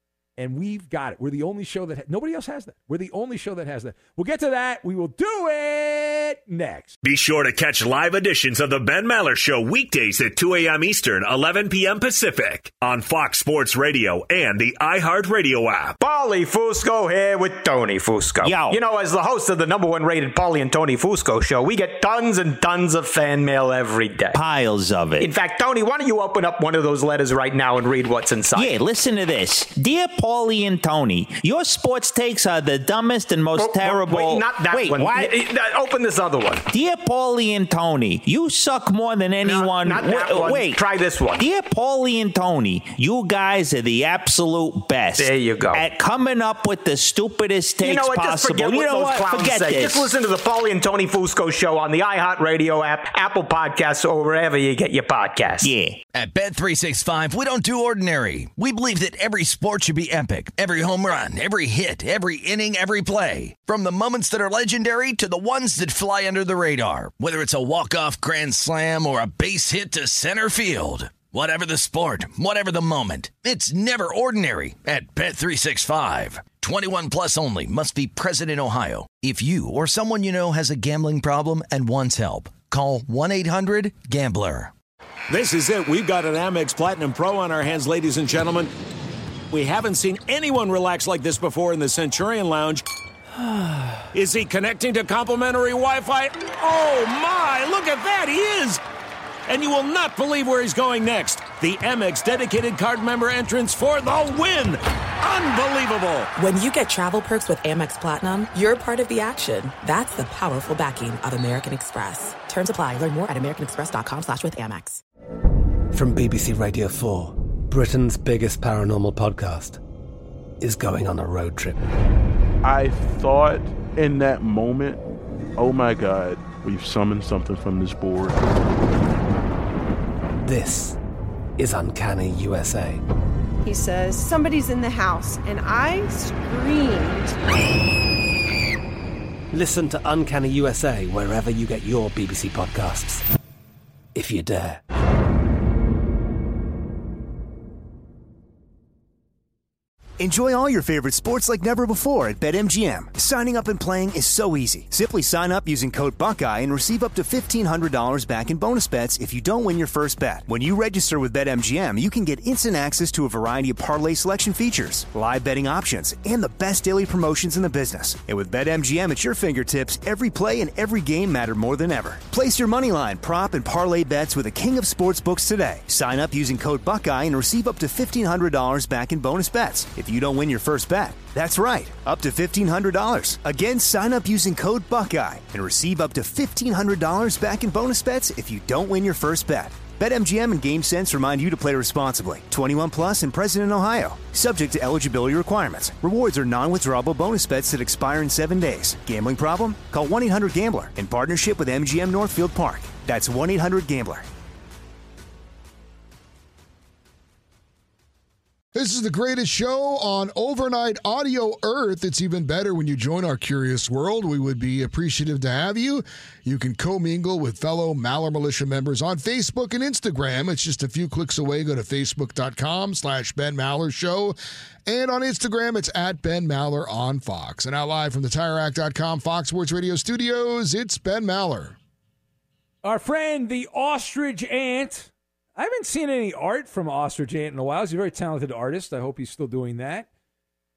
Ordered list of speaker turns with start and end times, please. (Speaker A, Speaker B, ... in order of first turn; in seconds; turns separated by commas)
Speaker A: 0.4-6.9, Speaker B: 7.0-16.0, Speaker C: 16.0-24.4, Speaker D: 18.4-18.8, Speaker D: 24.3-25.3, Speaker C: 25.2-28.7, Speaker D: 28.5-35.4, Speaker C: 33.5-36.6, Speaker D: 36.7-40.8, Speaker C: 39.4-41.4, Speaker D: 41.4-50.1, Speaker C: 45.1-45.8, Speaker C: 47.8-55.7, Speaker D: 55.6-56.0, Speaker E: 56.1-84.7, Speaker F: 85.3-88.7, Speaker F: 89.5-92.8, Speaker F: 94.1-98.8, Speaker F: 99.5-106.3, Speaker G: 106.3-115.0, Speaker H: 115.9-119.8, Speaker H: 120.6-121.8, Speaker I: 122.6-125.0, Speaker I: 125.6-128.4, Speaker H: 130.4-131.0, Speaker H: 131.6-133.0, Speaker J: 133.6-137.3, Speaker H: 139.5-143.2, Speaker H: 144.1-144.8, Speaker K: 150.2-204.2, Speaker L: 208.7-231.8, Speaker A: 232.8-240.1